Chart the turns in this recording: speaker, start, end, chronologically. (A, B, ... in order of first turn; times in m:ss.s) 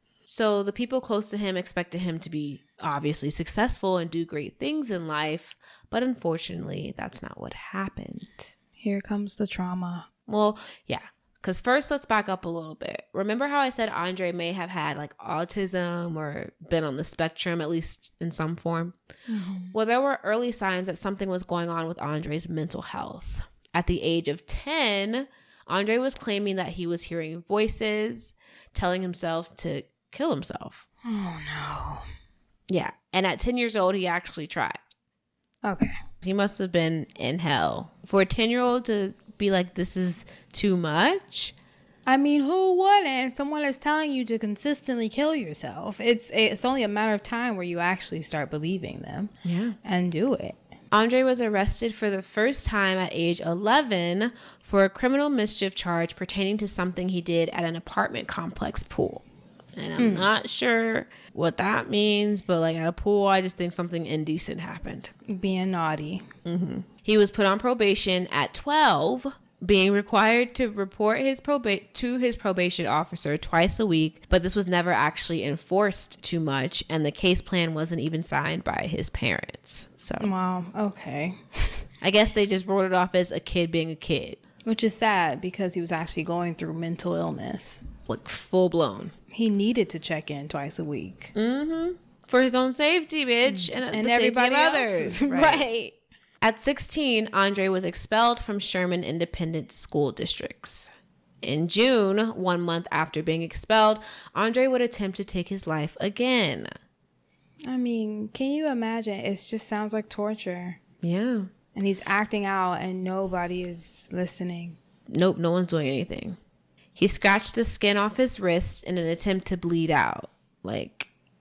0:00.3-0:08.5 A
0:08.8-0:10.1 B
0:10.3-0:18.9 A
0:19.3-0:19.7 B
0:19.7-0:30.8 A
0:31.0-0:32.1 B
0:32.7-0:34.8 A
0:35.6-0:35.9 B
0:36.2-0:41.5 A
0:42.0-0:49.3 B
0:49.4-0:49.8 A
0:49.8-0:50.6 B
0:50.9-0:59.2 A
0:59.8-1:05.1 A
1:00.0-1:00.3 B
1:05.3-1:06.2 B
1:06.4-1:20.3 A
1:20.2-1:21.8 B
1:22.0-1:24.4 A
1:24.6-1:27.8 B
1:28.1-1:29.1 A
1:29.3-1:31.3 B
1:31.3-1:35.6 A
1:33.5-1:36.0 B
1:36.4-1:40.9 A
1:41.4-1:46.7 A
1:47.7-1:50.8 B
1:51.0-1:51.5 A
1:51.7-1:54.8 B
1:55.1-1:56.4 A
1:56.9-2:01.1 A